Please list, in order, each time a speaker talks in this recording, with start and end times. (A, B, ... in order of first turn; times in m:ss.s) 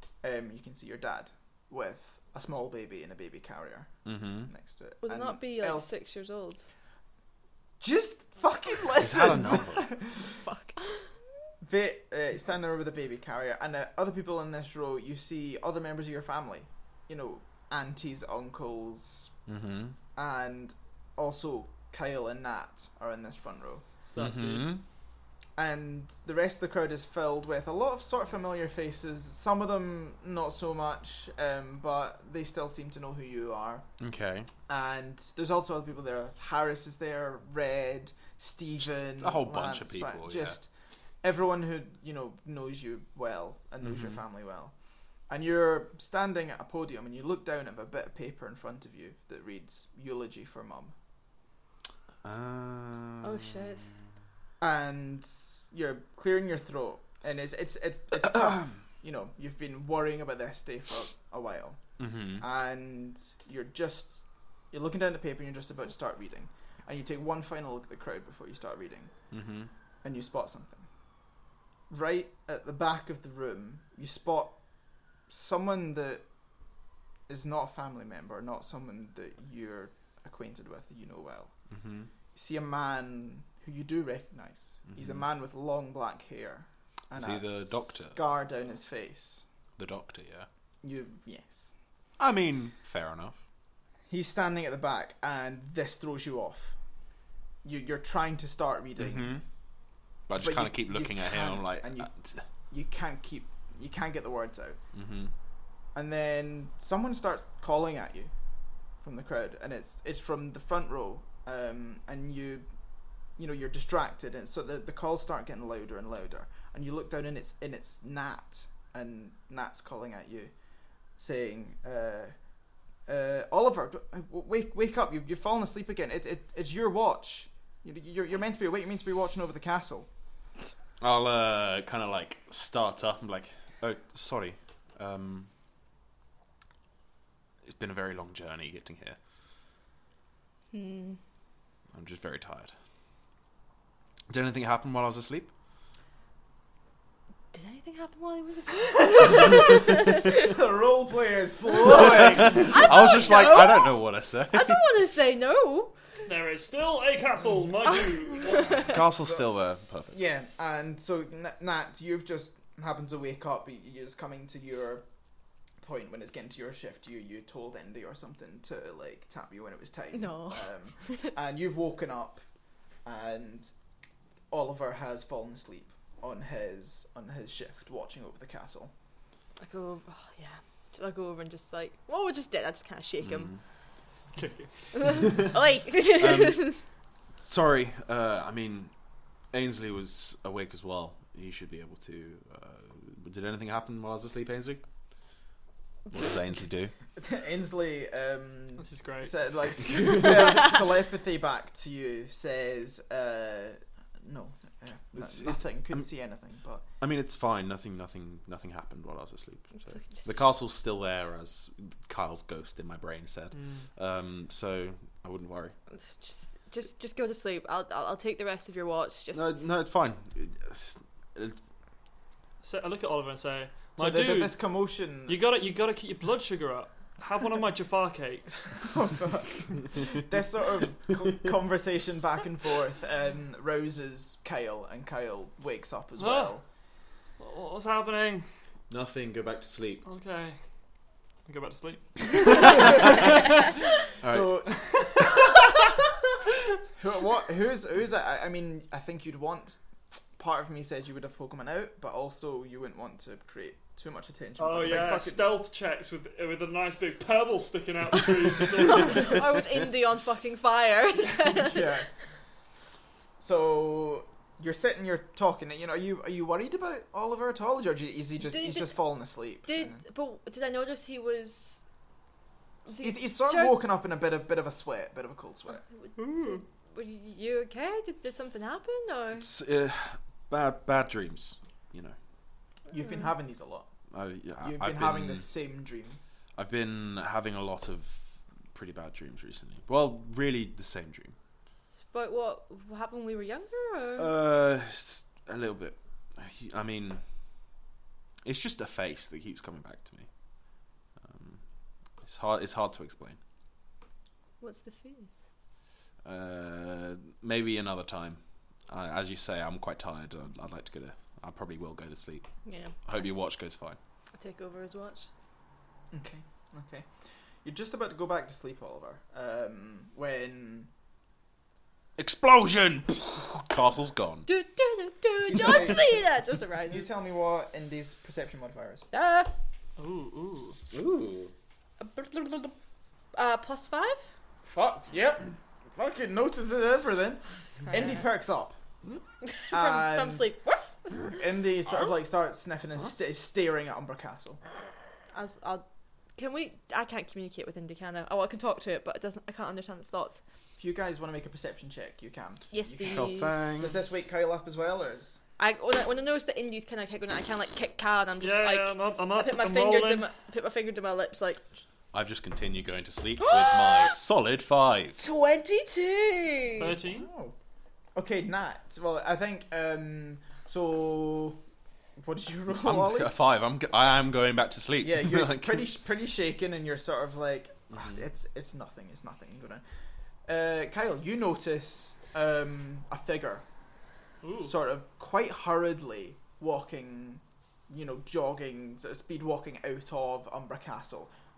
0:00.2-0:03.9 A
0:04.0-0:04.5 B
0:04.5-0:06.0 A
0:05.0-0:06.6 C
0:07.8-0:10.4 A
0:09.0-0:09.8 B
0:10.4-0:11.0 C
0:11.6-0:19.3 A
0:19.5-0:19.9 B
0:20.2-0:23.8 A
0:24.0-0:24.7 D
0:24.2-0:24.8 B
0:25.6-0:33.8 A
0:34.0-0:34.5 B
0:34.7-0:40.7 A
0:38.8-0:40.6 B
0:41.2-0:44.7 A
0:43.8-0:44.2 B
0:45.3-0:50.9 A
0:52.2-0:53.7 B
0:53.2-0:53.9 C
0:54.6-1:01.8 A
0:58.2-0:58.8 B
1:02.0-1:02.4 B
1:02.4-1:09.1 A
1:09.3-1:09.7 B
1:10.0-1:10.9 A
1:11.9-1:14.6 A
1:15.3-1:16.2 A
1:17.3-1:21.5 A
1:21.7-1:22.1 B
1:22.3-1:29.4 A
1:24.9-1:25.2 B
1:27.2-1:28.2 B
1:29.8-1:30.5 B
1:30.8-1:31.7 A
1:32.2-1:33.4 B
1:34.1-1:36.7 A
1:37.6-1:39.4 A
1:39.0-1:39.4 B
1:40.3-1:42.4 B
1:40.4-1:42.1 A
1:42.7-1:44.8 A
1:44.9-1:45.3 B
1:45.9-1:48.3 A
1:49.0-1:52.7 A
1:53.4-2:00.5 A
2:01.2-2:02.3 A
2:03.1-2:10.1 A
2:11.0-2:15.5 B
2:17.6-2:19.2 B
2:20.7-2:21.2 C
2:21.9-2:22.7 B
2:24.3-2:25.5 B
2:27.5-2:30.5 C
2:30.2-2:33.1 A
2:32.0-2:34.8 B
2:32.7-2:35.9 C
2:36.2-2:38.9 D
2:37.9-2:39.0 C
2:38.8-2:40.2 B
2:39.1-2:39.4 A
2:40.1-2:45.0 A
2:45.8-2:52.4 A
2:50.1-2:51.1 C
2:53.0-2:53.7 A
2:54.5-2:58.9 A
2:59.6-3:03.5 C
3:03.2-3:03.6 B
3:04.3-3:05.2 D
3:04.9-3:06.8 C
3:05.2-3:05.5 B
3:06.1-3:06.8 B
3:07.4-3:08.9 B
3:09.5-3:14.8 B
3:16.1-3:16.9 B
3:17.1-3:26.8 A
3:18.8-3:19.3 D
3:25.1-3:26.1 B
3:27.0-3:35.7 B
3:29.8-3:30.3 C
3:33.5-3:33.9 D
3:35.9-3:39.6 C
3:39.3-3:41.6 B
3:42.6-3:44.6 D
3:44.0-3:45.4 A
3:45.2-3:48.9 D
3:48.9-3:56.6 A
3:56.2-3:56.5 D
3:57.4-3:58.4 D
3:58.9-4:00.0 B
4:00.0-4:00.6 D
4:01.4-4:03.6 D
4:02.6-4:03.3 B
4:02.6-4:03.2 A
4:04.2-4:05.5 B
4:04.2-4:05.7 A
4:06.9-4:09.8 A
4:10.4-4:15.5 A
4:14.6-4:19.4 D
4:18.8-4:21.9 C
4:21.5-4:22.1 A
4:23.4-4:30.0 A
4:28.5-4:29.0 C
4:29.7-4:31.8 C
4:32.9-4:33.8 C
4:33.0-4:35.8 A
4:35.7-4:39.5 C
4:36.2-4:36.6 D
4:39.3-4:42.2 B
4:42.9-4:43.9 A
4:42.9-4:43.3 C
4:44.1-4:45.5 B
4:44.6-4:46.2 A
4:46.6-4:51.3 B
4:52.1-4:54.3 C
4:54.2-4:57.2 B
4:58.4-5:00.3 B
5:01.2-5:01.6 B
5:02.2-5:03.4 B
5:04.6-5:05.3 C
5:06.2-5:12.5 B
5:12.6-5:13.0 C
5:13.0-5:14.0 B
5:14.3-5:15.3 C
5:16.1-5:17.1 A
5:17.6-5:20.9 A
5:22.2-5:24.5 B
5:24.4-5:27.0 C
5:25.4-5:26.2 A
5:26.8-5:29.1 A
5:29.1-5:29.5 C
5:30.0-5:30.8 D
5:30.9-5:31.5 B
5:32.0-5:32.7 C
5:33.3-5:34.2 C
5:34.6-5:38.8 A
5:39.4-5:41.4 C
5:39.7-5:40.5 A
5:41.3-5:44.6 A
5:45.3-5:45.8 C
5:46.4-5:50.4 C
5:50.8-5:55.4 A
5:52.7-5:53.8 C
5:53.0-5:54.0 B
5:55.6-6:01.6 C
5:58.4-6:00.3 D
6:02.1-6:05.2 B
6:03.4-6:04.2 C
6:05.2-6:06.9 C
6:06.8-6:07.3 D
6:07.0-6:07.5 A
6:08.1-6:11.6 A
6:12.2-6:13.3 A
6:12.8-6:15.9 B
6:15.0-6:19.8 A
6:17.9-6:18.2 B
6:20.4-6:23.6 A
6:24.4-6:24.7 D
6:24.6-6:31.3 A